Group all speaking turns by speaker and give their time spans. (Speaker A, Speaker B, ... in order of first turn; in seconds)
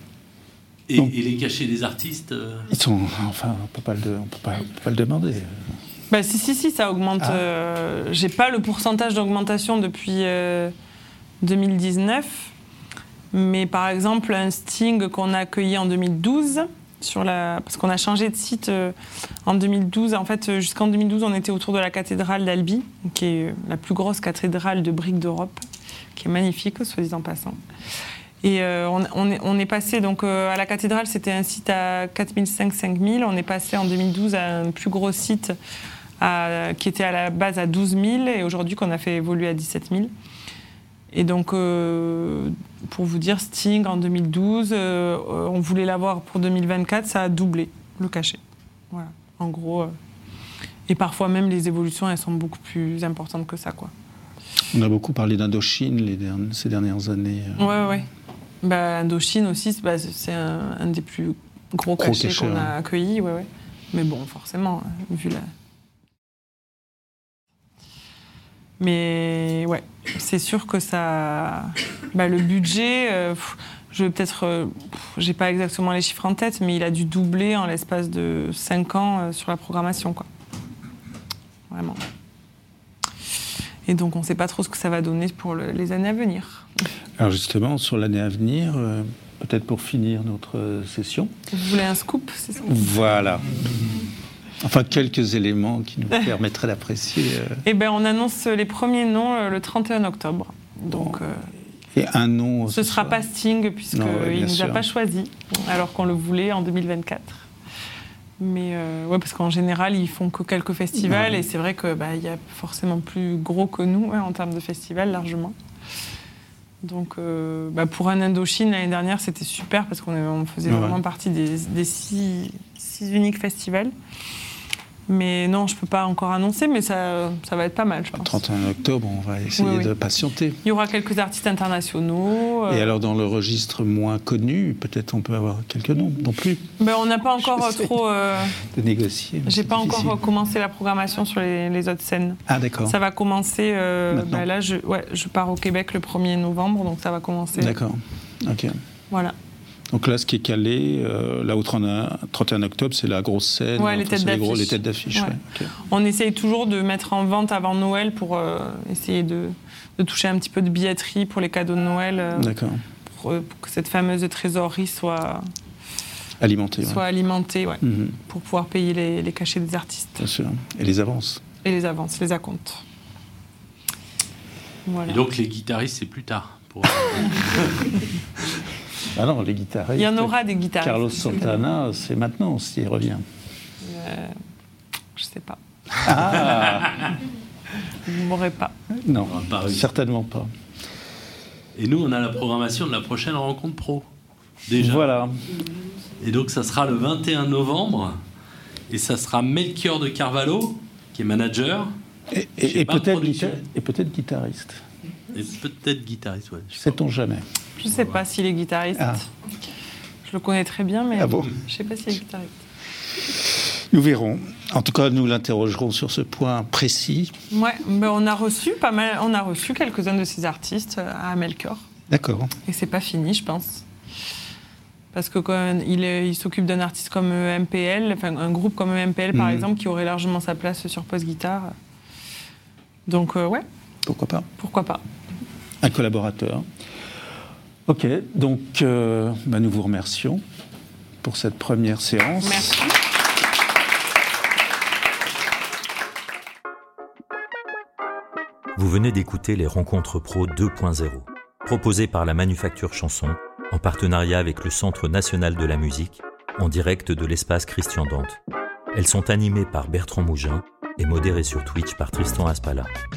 Speaker A: 0.9-2.7, 175.1-178.6, 186.5-187.1, 189.2-189.8, 191.8-194.1, 194.7-195.1, 196.2-198.2, 198.9-201.9, 202.6-203.6, 205.3-207.0, 207.8-208.2
Speaker B: 2.7-5.8, 7.2-7.4, 54.7-57.8, 62.0-62.7, 87.2-91.3, 92.6-94.0, 94.6-97.6, 100.9-101.2, 101.8-103.3, 103.9-104.8, 110.9-111.4, 120.7-121.0, 128.1-130.6, 132.7-136.7, 137.4-140.2, 142.5-143.0, 144.1-144.5, 147.6-148.8, 149.9-155.7, 162.3-162.8, 166.4-167.1, 167.8-168.2, 170.2-171.4, 179.0-183.2, 186.0-187.1, 188.9-190.5, 194.8-195.6, 202.3-204.8, 206.7-207.5, 208.9-209.2, 211.1-211.6, 213.2-217.3, 222.1-222.5, 229.3-229.7, 234.0-234.4, 235.8-236.7, 237.8-240.4, 241.2-242.8
Speaker C: 6.1-10.7, 11.4-12.5, 13.3-25.6, 26.1-27.6, 28.4-35.5, 36.2-40.1, 41.1-49.9, 50.9-53.9, 57.6-58.1, 58.6-65.5, 68.8-80.2, 81.7-82.0, 83.9-86.7, 91.5-93.2, 97.6-101.5, 102.7-107.5, 108.4-115.5, 116.8-123.9, 125.1-128.4, 129.6-129.9, 130.6-132.9, 136.8-138.6, 139.4-147.8, 153.8-162.5, 163.1-165.5, 166.8-170.2, 171.6-172.8, 174.8-175.2, 179.9-181.7, 183.8-184.4, 185.2-185.6, 187.8-188.7, 207.8-209.3, 210.2-212.6, 217.5-221.8, 222.7-223.8, 225.1-231.7, 233.1-233.6, 234.6-235.0, 242.4-243.0
Speaker D: 248.7-258.4, 258.9-262.9